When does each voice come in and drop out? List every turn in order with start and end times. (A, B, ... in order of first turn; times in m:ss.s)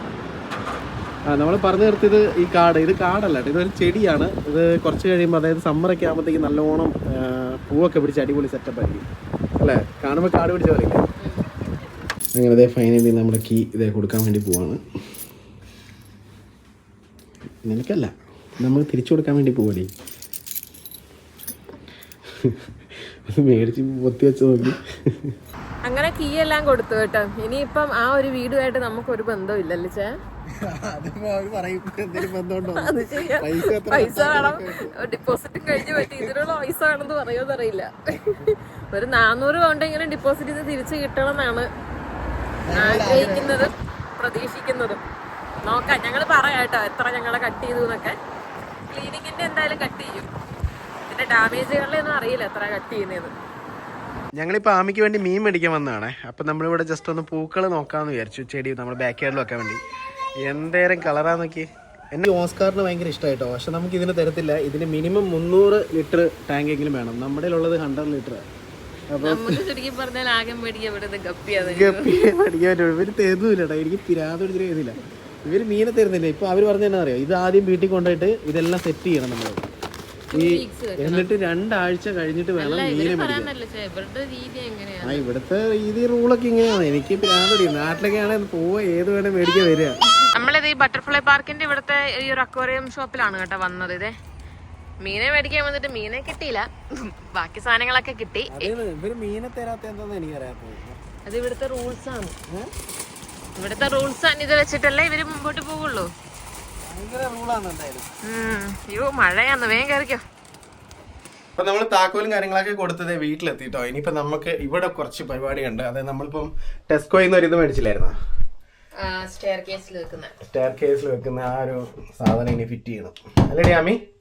0:01.3-0:09.1 A
0:09.6-0:11.0 A
0:11.2-0:11.6 B
0:12.4-0:14.8 A
0:17.6-0:19.9 A
0:23.3-0:25.4 A
0:25.8-0:30.2 B
0:30.6-0:34.9 A
0:32.2-0:41.7 B
0:35.8-0:36.4 A
0:42.7-0:43.6 A
0:42.7-0:45.0 B
0:45.6-0:48.2 B
0:48.9-0:50.3 B
0:51.1-0:53.3 B
0:54.4-0:59.8 A
1:00.4-1:08.4 A
1:09.1-1:09.6 A
1:09.2-1:12.2 B
1:11.6-1:19.6 A
1:20.3-1:21.3 B
1:20.4-1:23.5 A
1:22.6-1:25.2 B
1:25.0-1:30.0 A
1:30.3-1:34.1 B
1:35.0-1:38.7 B
1:38.5-1:41.0 A
1:41.3-1:42.4 B
1:43.6-1:46.1 B
1:46.9-1:48.1 A
1:48.2-1:50.2 B
1:51.6-1:58.2 A
1:59.0-2:00.3 B
2:00.5-2:04.0 A